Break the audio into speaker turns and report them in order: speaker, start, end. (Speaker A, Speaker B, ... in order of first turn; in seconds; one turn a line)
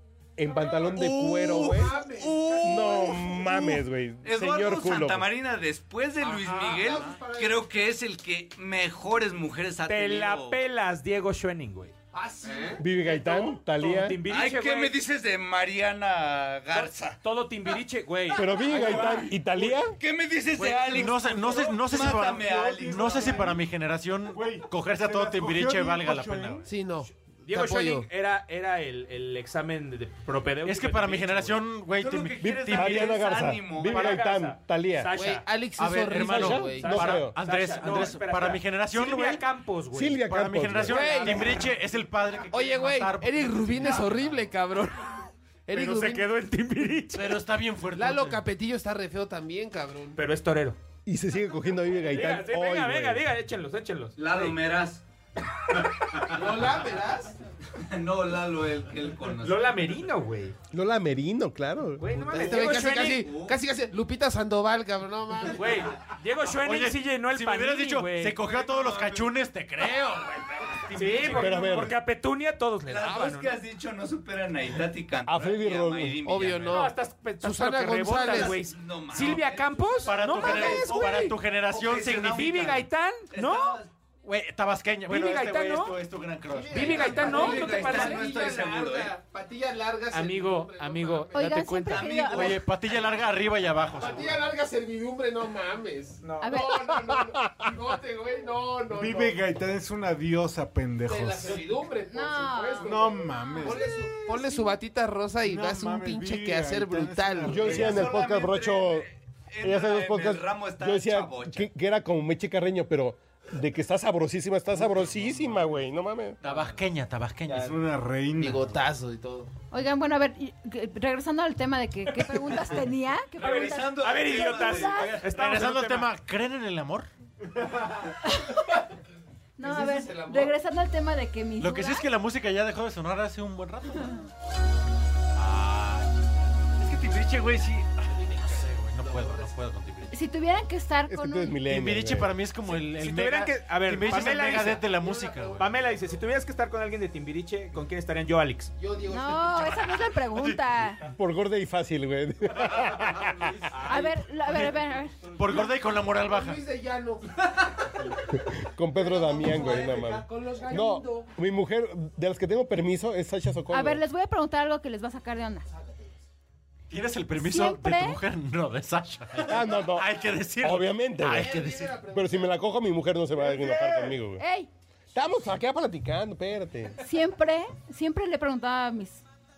Speaker A: 0.4-1.9
Speaker B: 0.9-10.6
Speaker C: 1.0-1.6
Speaker D: 1.5-2.6
Speaker A: 2.6-5.3
Speaker E: 6.2-6.6
Speaker D: 6.4-7.6
Speaker E: 9.8-11.9
Speaker D: 12.1-12.8
Speaker A: 12.8-14.2
Speaker E: 13.0-15.0
Speaker B: 14.2-17.2
Speaker E: 16.7-19.4
Speaker A: 18.3-19.9
Speaker B: 18.9-23.5
Speaker C: 20.6-26.6
Speaker E: 21.2-21.6
Speaker F: 21.6-23.7
Speaker F: 24.3-26.7
Speaker D: 26.6-28.1
Speaker E: 27.4-31.6
Speaker C: 30.6-33.2
Speaker B: 31.9-34.2
Speaker A: 32.4-35.2
Speaker E: 33.8-35.5
Speaker D: 35.1-37.0
Speaker C: 35.8-39.4
Speaker A: 36.2-37.4
Speaker E: 36.7-40.3
Speaker A: 39.9-41.4
Speaker C: 40.2-44.3
Speaker D: 40.9-41.6
Speaker E: 41.1-41.6
Speaker D: 42.5-46.3
Speaker E: 45.7-47.4
Speaker C: 47.1-48.4
Speaker D: 47.9-50.2
Speaker E: 50.1-50.8
Speaker A: 51.0-53.2
Speaker E: 52.0-54.6
Speaker B: 54.1-55.0
Speaker D: 56.3-57.3
Speaker B: 57.8-59.6
Speaker E: 59.3-60.5
Speaker A: 60.7-62.0
Speaker E: 62.0-63.3
Speaker D: 62.1-65.9
Speaker B: 62.5-63.6
Speaker E: 65.5-68.4
Speaker C: 66.4-71.5
Speaker B: 68.4-69.3
Speaker E: 70.9-73.5
Speaker A: 71.3-72.0
Speaker B: 72.9-76.9
Speaker A: 75.2-76.2
Speaker D: 76.2-78.6
Speaker E: 76.6-83.8
Speaker B: 78.3-80.1
Speaker C: 80.0-82.8
Speaker B: 81.7-82.7
Speaker B: 83.3-83.9
Speaker C: 84.2-87.2
Speaker E: 85.1-86.0
Speaker D: 86.5-91.5
Speaker E: 86.7-88.4
Speaker B: 87.3-89.2
Speaker E: 90.1-92.2
Speaker G: 91.3-92.6
Speaker B: 91.9-92.7
Speaker C: 92.3-94.4
Speaker D: 94.0-99.5
Speaker E: 96.2-96.7
Speaker G: 96.4-96.8
Speaker A: 97.1-97.3
Speaker F: 98.9-101.7
Speaker D: 101.0-108.0
Speaker G: 102.1-103.8
Speaker F: 102.8-104.7
Speaker F: 105.4-108.1
Speaker A: 107.5-109.1
Speaker B: 107.6-111.7
Speaker A: 109.6-116.4
Speaker F: 114.8-115.6
Speaker C: 116.4-117.8
Speaker F: 117.5-118.8
Speaker D: 118.4-119.5
Speaker G: 119.7-125.2
Speaker B: 123.4-125.1
Speaker E: 123.4-126.1
Speaker C: 125.0-127.1
Speaker G: 128.2-128.8
Speaker G: 129.6-132.1
Speaker D: 129.6-130.5
Speaker C: 131.6-134.2
Speaker C: 135.3-136.1
Speaker C: 136.8-140.1
Speaker D: 138.1-139.5
Speaker G: 140.1-141.6
Speaker A: 141.1-142.3
Speaker C: 141.7-145.7
Speaker E: 142.7-144.9
Speaker D: 144.1-146.0
Speaker E: 145.6-148.7
Speaker D: 148.8-150.0
Speaker G: 149.1-151.0
Speaker C: 150.2-150.6
Speaker A: 151.2-153.7
Speaker E: 153.7-154.1
Speaker G: 153.9-155.2
Speaker C: 155.3-156.6
Speaker D: 155.4-157.5
Speaker A: 158.4-164.0
Speaker D: 158.9-161.3
Speaker G: 163.7-165.7
Speaker D: 165.8-166.1
Speaker C: 166.9-172.0
Speaker G: 167.3-168.2
Speaker A: 169.4-171.6
Speaker D: 171.3-172.5
Speaker A: 172.1-174.4
Speaker F: 173.5-173.9
Speaker G: 174.4-174.7
Speaker A: 175.1-176.9
Speaker G: 177.0-179.2